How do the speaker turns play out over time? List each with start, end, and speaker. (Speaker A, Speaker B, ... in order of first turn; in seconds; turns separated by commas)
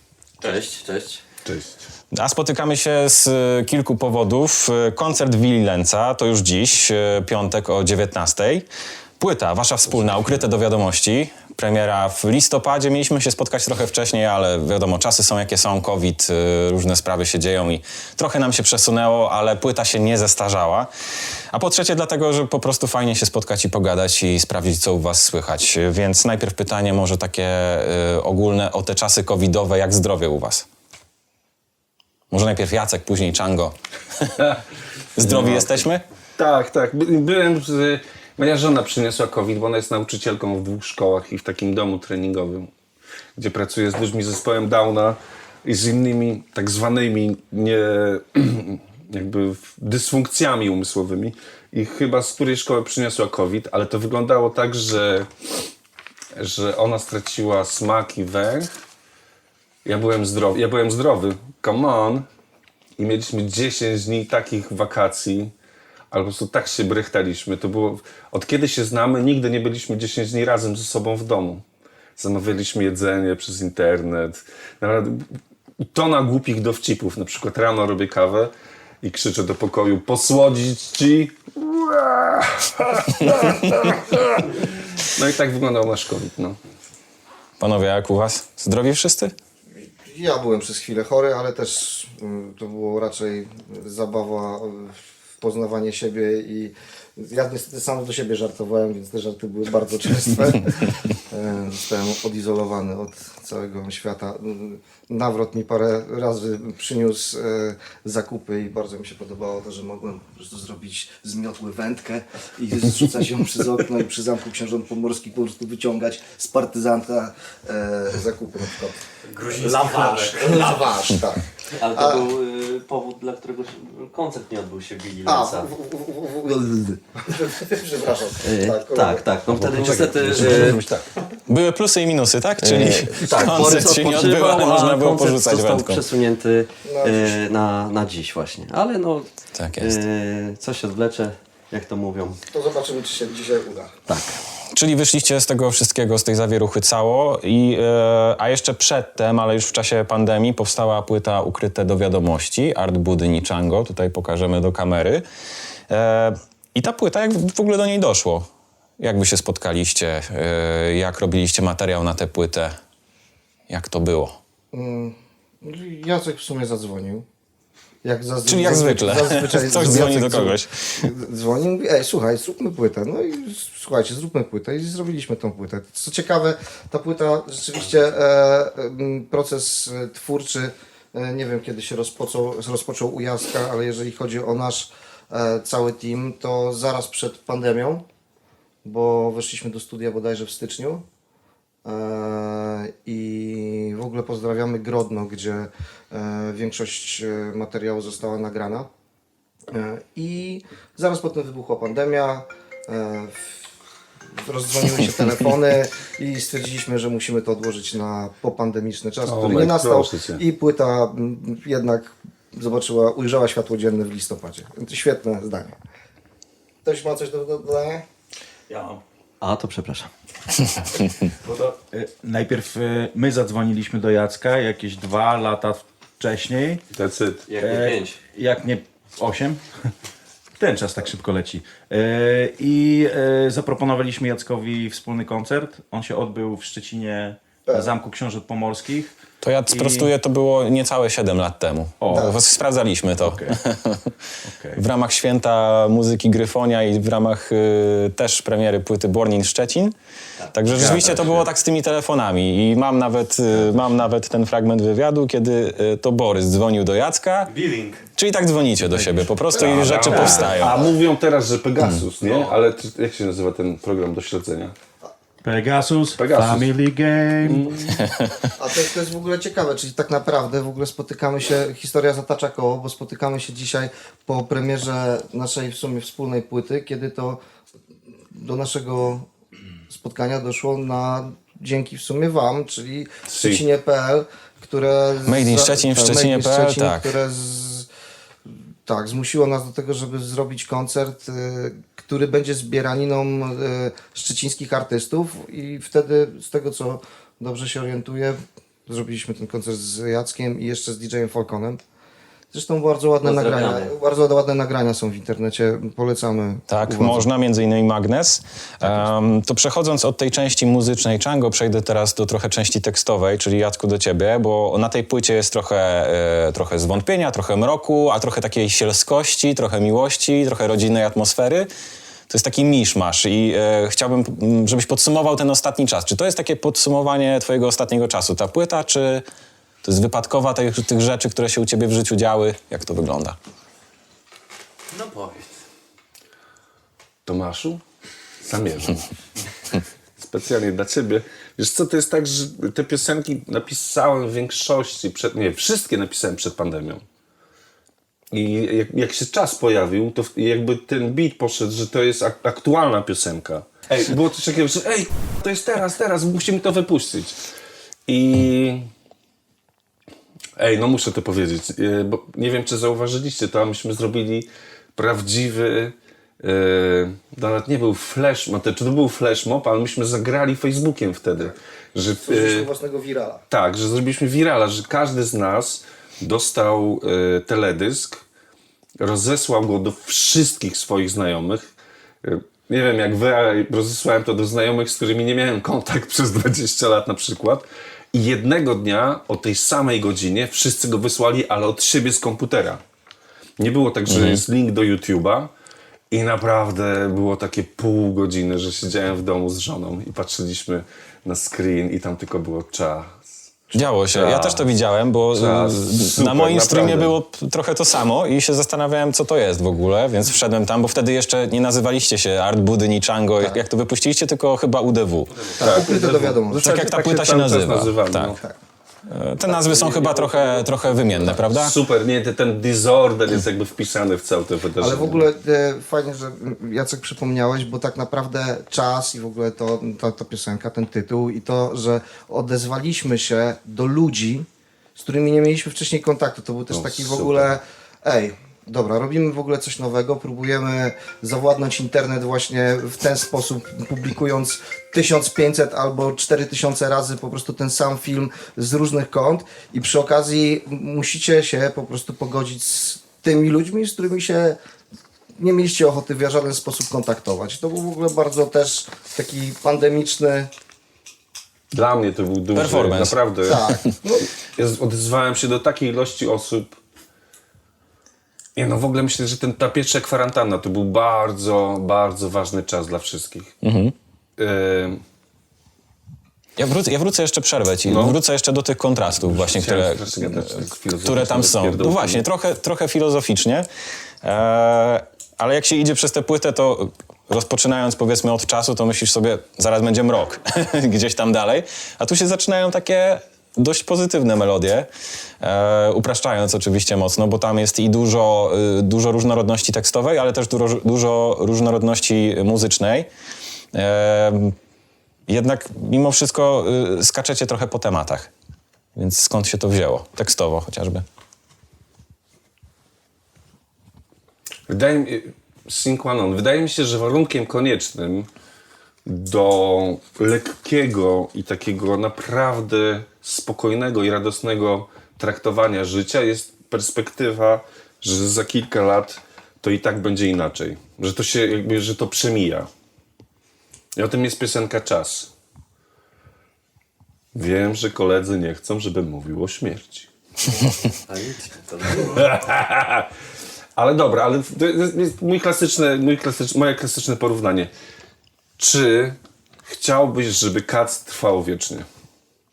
Speaker A: 0.4-1.2, Speaker B: 1.4-1.9, Speaker C: 2.1-8.7, Speaker C: 9.2-20.9, Speaker C: 21.5-30.7, Speaker C: 32.3-34.5, Speaker C: 35.2-36.0, Speaker B: 35.2-35.8, Speaker B: 36.4-42.7, Speaker B: 43.4-55.3, Speaker B: 56.4-58.7, Speaker B: 59.9-62.3, Speaker B: 63.0-65.5, Speaker B: 66.1-71.6, Speaker B: 72.2-75.3, Speaker B: 75.9-86.6, Speaker C: 87.6-89.3, Speaker D: 89.8-122.2, Speaker A: 119.7-120.7, Speaker A: 121.8-125.7, Speaker D: 125.2-129.3, Speaker A: 128.4-130.8, Speaker B: 129.5-131.1, Speaker C: 131.5-136.0, Speaker A: 132.6-139.3, Speaker D: 136.9-137.4, Speaker C: 139.6-140.0, Speaker A: 139.8-142.4, Speaker D: 142.5-143.9, Speaker A: 144.1-144.4, Speaker C: 144.7-155.2, Speaker C: 155.9-158.5, Speaker C: 159.0-162.8, Speaker C: 163.7-164.4, Speaker D: 164.7-167.3, Speaker D: 168.0-188.0, Speaker C: 168.5-170.8, Speaker D: 188.8-191.0, Speaker D: 191.8-198.9, Speaker D: 199.7-203.5, Speaker D: 204.4-215.8, Speaker B: 209.2-210.4, Speaker D: 216.8-218.1, Speaker A: 219.4-220.1, Speaker E: 221.4-226.8, Speaker B: 226.9-227.4, Speaker A: 227.5-228.2, Speaker E: 227.6-229.6, Speaker E: 230.6-239.1, Speaker D: 237.7-237.9, Speaker C: 239.4-244.1, Speaker E: 239.7-240.1, Speaker E: 242.0-242.3, Speaker D: 242.1-242.4, Speaker E: 243.2-243.6, Speaker E: 244.4-244.8, Speaker C: 244.8-249.9, Speaker C: 250.5-257.6, Speaker B: 250.8-251.4, Speaker C: 258.1-260.8, Speaker B: 259.6-264.7, Speaker E: 259.9-260.6, Speaker D: 260.2-260.8, Speaker E: 265.4-267.9, Speaker B: 266.2-266.7, Speaker B: 267.4-268.0, Speaker C: 268.0-268.5, Speaker D: 268.6-277.4, Speaker D: 278.3-279.3, Speaker D: 279.9-287.9, Speaker B: 283.3-283.6, Speaker C: 285.3-287.1, Speaker D: 288.9-301.8, Speaker D: 302.5-307.2, Speaker A: 303.2-303.9, Speaker C: 306.7-321.7, Speaker C: 322.3-329.2, Speaker C: 329.8-333.4, Speaker A: 334.9-335.4, Speaker B: 337.2-337.8, Speaker B: 338.4-339.1, Speaker B: 340.2-347.0, Speaker B: 348.3-357.4, Speaker B: 358.1-358.9, Speaker B: 360.6-372.7, Speaker D: 372.2-373.4, Speaker B: 373.5-378.2, Speaker B: 379.0-381.7, Speaker B: 382.2-392.8, Speaker B: 393.6-395.5, Speaker C: 394.1-394.4, Speaker B: 396.1-403.2, Speaker C: 403.7-415.6, Speaker B: 404.1-404.6, Speaker B: 405.3-407.1, Speaker D: 415.6-416.7, Speaker B: 415.6-418.4, Speaker C: 416.5-418.3, Speaker C: 419.1-421.8, Speaker D: 419.7-420.5, Speaker B: 420.9-425.3, Speaker D: 424.8-454.6, Speaker B: 436.7-437.5, Speaker D: 455.4-460.5, Speaker B: 461.7-463.7, Speaker C: 462.6-463.2, Speaker D: 463.4-464.3, Speaker B: 464.4-466.8, Speaker B: 468.6-473.6, Speaker C: 473.6-473.9, Speaker B: 474.4-475.0, Speaker C: 476.6-483.7, Speaker B: 477.9-478.2, Speaker B: 479.2-482.2, Speaker C: 484.2-494.9, Speaker C: 495.4-503.1, Speaker C: 503.7-504.6, Speaker C: 505.3-508.3, Speaker C: 509.0-511.1, Speaker B: 514.7-518.3, Speaker B: 519.0-532.7, Speaker B: 534.0-535.3, Speaker B: 537.3-540.1, Speaker A: 540.5-542.2, Speaker B: 541.9-543.1, Speaker B: 543.8-547.7, Speaker B: 548.6-551.9